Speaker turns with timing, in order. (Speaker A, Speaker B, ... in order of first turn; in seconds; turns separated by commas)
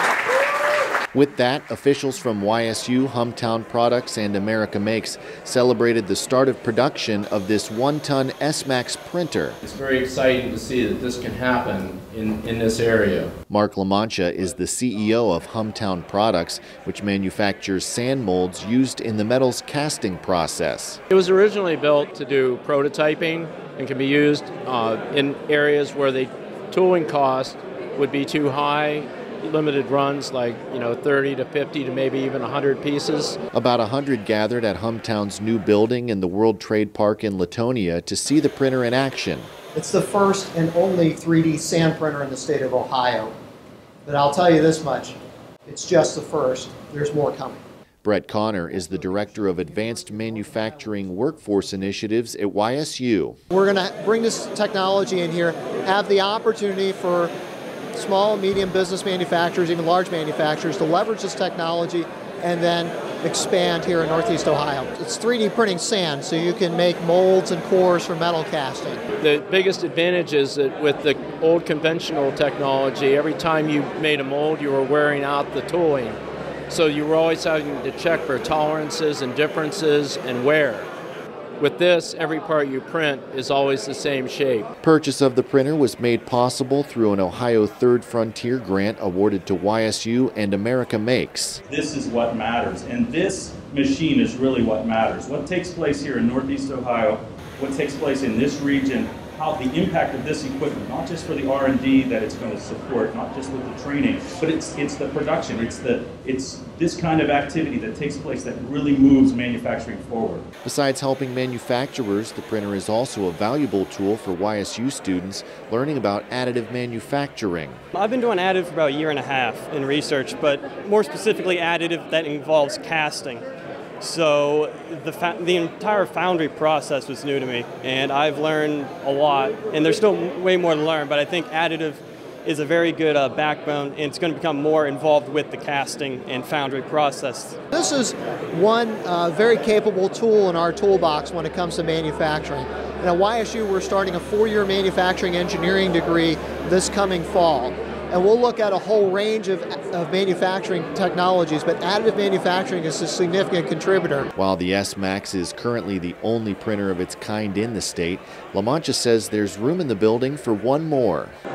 Speaker A: 1.1-9.6, Speaker B: 9.6-13.3, Speaker A: 13.5-21.0, Speaker B: 21.1-33.4, Speaker A: 33.5-39.5, Speaker C: 39.7-43.3, Speaker C: 44.0-45.1, Speaker C: 45.7-47.6, Speaker A: 48.0-53.4, Speaker C: 53.5-57.3, Speaker C: 57.9-69.0, Speaker B: 69.2-76.2, Speaker B: 76.7-80.9, Speaker B: 81.6-84.7, Speaker A: 84.8-91.6, Speaker D: 91.7-110.5, Speaker A: 110.6-117.8, Speaker E: 117.9-123.5, Speaker E: 124.0-137.6, Speaker C: 137.7-154.3, Speaker A: 154.3-161.3